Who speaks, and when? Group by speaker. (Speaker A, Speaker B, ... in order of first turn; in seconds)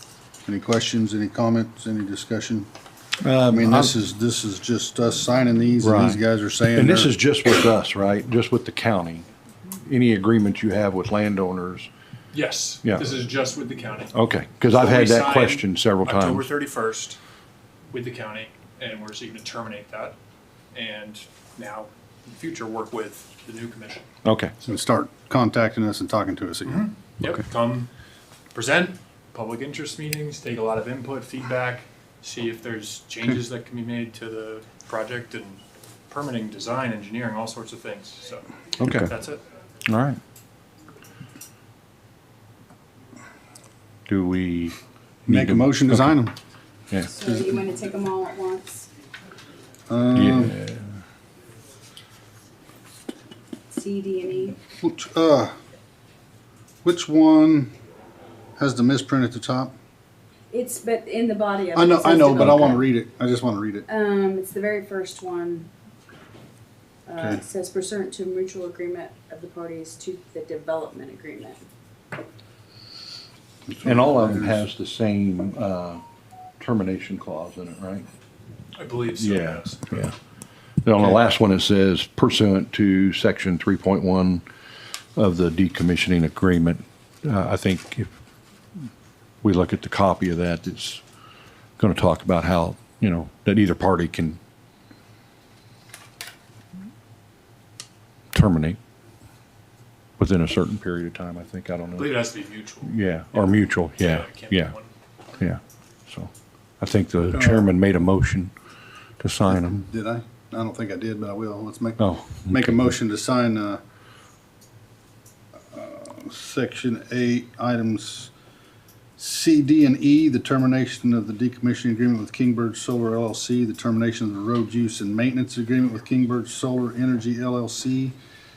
Speaker A: 0.5-2.7, 3.5-7.1, 24.6-26.9, 45.3-46.3, 49.9-50.6, 54.8-55.5, 56.8-57.7, 58.6-59.7, 61.7-63.8, 73.7-74.6, 107.3-107.7, 109.5-113.8, 115.7-118.3, 119.2-128.2
Speaker B: 3.2-3.9, 5.8-6.2, 6.7-11.9, 14.1-16.5, 24.2-24.5, 38.8-39.1, 39.9-40.2, 44.1-44.8, 45.3-46.1, 50.1-50.8, 73.8-76.0, 76.6-78.1, 79.1-80.1, 80.8-84.4, 85.2-88.1, 89.4-91.0, 91.8-94.4, 98.3-98.8, 100.2-102.1, 102.8-104.8, 105.4-108.5, 109.2-109.8, 112.0-112.9
Speaker C: 12.3-14.1, 14.7-17.2, 17.9-20.2, 20.7-24.1, 26.7-27.9, 28.5-39.4, 78.8-80.0, 102.0-104.9
Speaker D: 47.0-48.9, 53.7-54.6, 60.5-62.8, 63.9-65.7, 67.1-71.6